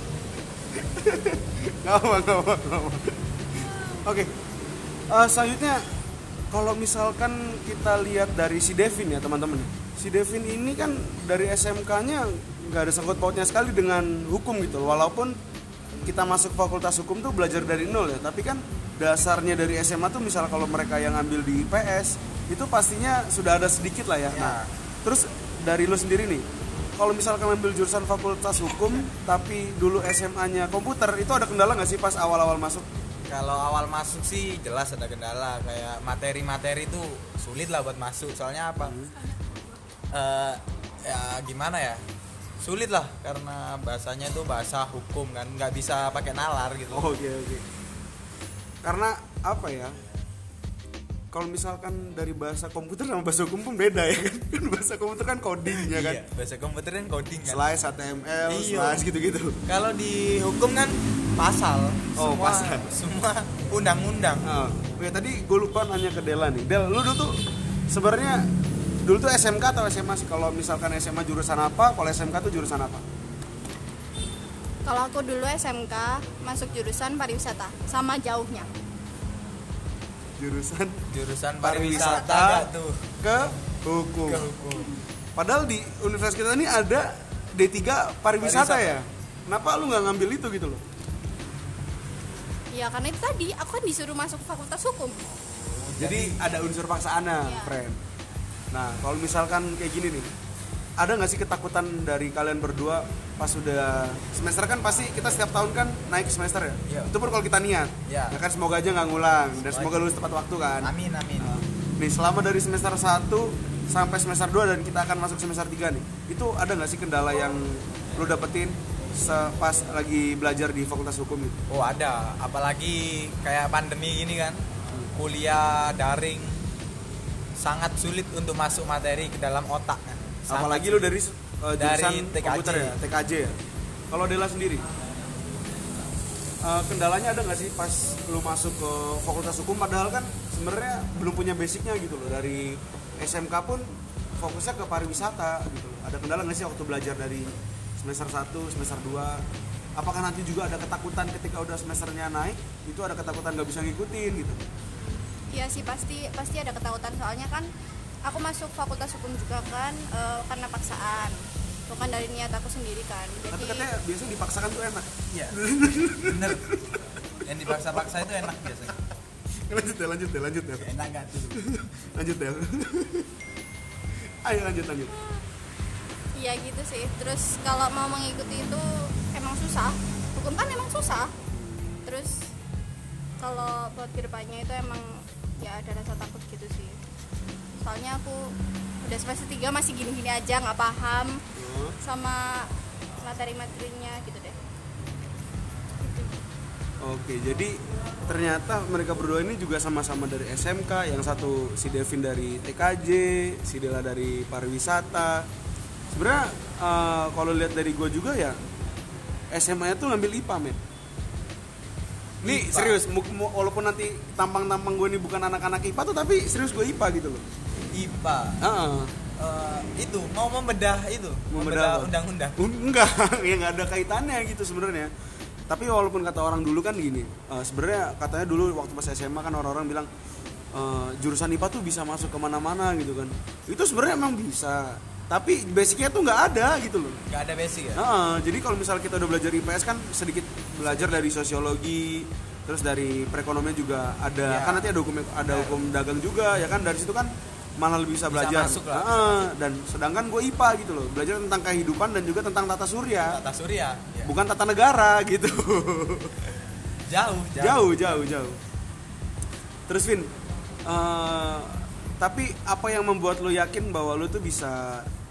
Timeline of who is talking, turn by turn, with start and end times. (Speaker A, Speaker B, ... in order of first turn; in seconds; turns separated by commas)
Speaker A: 0.7-3.2, Speaker A: 3.9-4.3, Speaker A: 5.1-5.8, Speaker A: 6.5-15.4, Speaker A: 16.0-26.5, Speaker B: 24.3-24.7, Speaker A: 27.0-32.9, Speaker B: 33.3-39.0, Speaker A: 38.8-39.1, Speaker B: 40.1-42.0, Speaker B: 42.6-47.2, Speaker A: 46.9-47.6, Speaker A: 48.8-50.0, Speaker A: 51.3-56.2, Speaker B: 55.7-57.6, Speaker A: 57.5-59.6, Speaker B: 58.5-59.0, Speaker B: 59.7-64.5, Speaker A: 62.2-63.0, Speaker A: 64.4-68.5, Speaker A: 69.0-73.0, Speaker C: 74.8-78.7, Speaker A: 80.4-81.1, Speaker B: 81.1-83.0, Speaker A: 81.6-82.7, Speaker A: 83.2-84.5, Speaker B: 84.3-84.9, Speaker A: 85.4-90.8, Speaker B: 88.4-89.0, Speaker C: 92.7-95.2, Speaker B: 95.6-96.4, Speaker A: 96.0-98.0, Speaker C: 97.4-97.8, Speaker A: 98.7-100.3, Speaker A: 101.0-121.6, Speaker B: 108.1-108.4, Speaker B: 109.7-110.0, Speaker B: 110.8-111.5, Speaker B: 121.7-124.6, Speaker B: 125.1-126.6, Speaker B: 127.6-131.2, Speaker A: 130.5-133.6, Speaker B: 131.8-133.0, Speaker A: 134.1-134.8, Speaker A: 136.6-149.4, Speaker A: 150.0-154.6, Speaker C: 155.5-157.7, Speaker C: 158.2-161.4, Speaker C: 161.9-163.9, Speaker A: 163.5-166.8, Speaker B: 165.3-165.6, Speaker B: 166.2-166.8, Speaker B: 167.4-169.0, Speaker A: 169.7-170.9, Speaker B: 170.8-171.6, Speaker A: 171.5-173.3, Speaker A: 174.4-175.2, Speaker C: 176.3-181.3, Speaker A: 181.5-182.0, Speaker C: 182.1-182.5, Speaker C: 183.4-187.0, Speaker C: 187.8-191.4, Speaker A: 191.6-192.0, Speaker C: 192.0-194.6, Speaker C: 196.0-196.4, Speaker A: 197.0-205.5, Speaker A: 206.1-208.6, Speaker A: 209.5-210.8, Speaker B: 212.4-213.0, Speaker A: 212.4-217.4, Speaker B: 217.9-218.6, Speaker A: 218.6-219.1, Speaker B: 219.4-222.6, Speaker A: 221.5-225.1, Speaker A: 225.7-230.1, Speaker A: 230.7-237.2, Speaker B: 237.3-238.0, Speaker A: 237.9-253.4, Speaker B: 240.8-241.2, Speaker B: 244.5-244.9, Speaker B: 245.5-245.8, Speaker B: 248.3-249.5, Speaker B: 253.2-254.3, Speaker A: 254.2-256.4, Speaker B: 257.1-258.0, Speaker A: 257.6-258.6, Speaker A: 259.9-260.3, Speaker A: 260.9-265.1